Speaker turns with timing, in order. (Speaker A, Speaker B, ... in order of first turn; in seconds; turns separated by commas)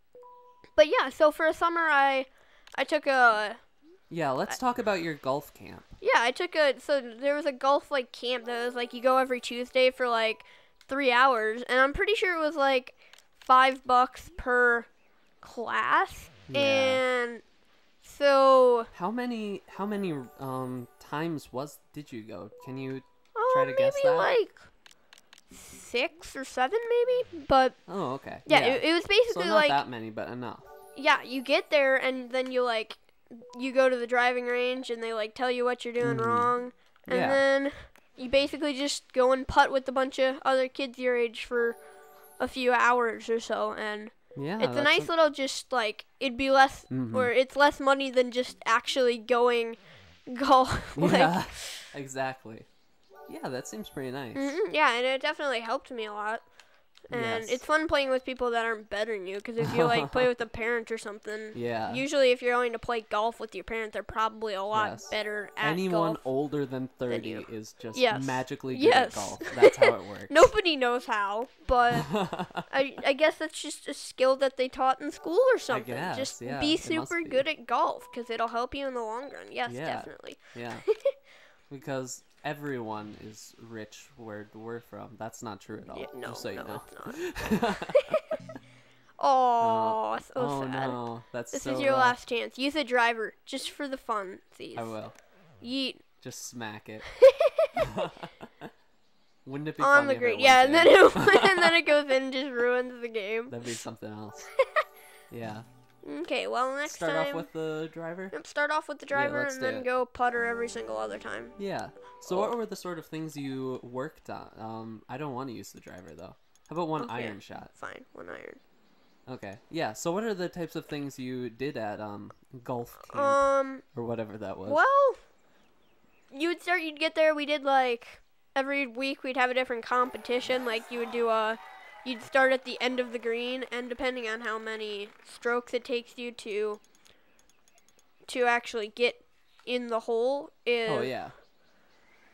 Speaker A: 0.8-3.6, Speaker B: 4.1-5.9, Speaker A: 6.0-14.9, Speaker A: 15.4-17.4, Speaker B: 16.5-17.0, Speaker A: 18.0-18.9, Speaker B: 18.9-24.3, Speaker A: 23.4-24.6, Speaker A: 25.5-27.8, Speaker B: 27.9-30.7, Speaker A: 28.4-29.8, Speaker A: 31.0-41.8, Speaker B: 36.0-36.5, Speaker B: 37.1-37.4, Speaker A: 42.4-51.9, Speaker B: 44.4-45.1, Speaker B: 46.9-47.3, Speaker B: 51.0-52.7, Speaker B: 53.3-54.6, Speaker A: 54.4-56.4, Speaker A: 57.1-66.3, Speaker B: 57.1-57.6, Speaker B: 59.6-60.3, Speaker B: 61.5-62.0, Speaker B: 64.7-70.5, Speaker A: 67.1-72.1, Speaker B: 72.0-72.7, Speaker A: 72.7-81.1, Speaker B: 75.7-77.5, Speaker B: 79.7-80.9, Speaker B: 81.7-88.2, Speaker A: 85.9-88.3, Speaker A: 89.2-91.0, Speaker B: 89.6-92.2, Speaker A: 91.5-95.0, Speaker B: 94.8-95.2, Speaker A: 95.6-96.0, Speaker B: 96.2-97.1, Speaker A: 97.2-97.7, Speaker B: 97.8-98.3, Speaker B: 99.5-102.0, Speaker A: 99.8-103.6, Speaker B: 103.5-104.5, Speaker A: 104.6-104.8, Speaker B: 105.3-105.7, Speaker A: 106.0-107.5, Speaker B: 106.8-108.3, Speaker A: 108.3-111.6, Speaker B: 109.1-109.9, Speaker B: 111.6-117.7, Speaker A: 112.3-112.6, Speaker A: 117.0-118.6, Speaker B: 119.3-124.8, Speaker A: 123.1-123.8, Speaker A: 124.7-125.2, Speaker A: 126.3-136.8, Speaker A: 138.3-141.1, Speaker B: 140.9-141.3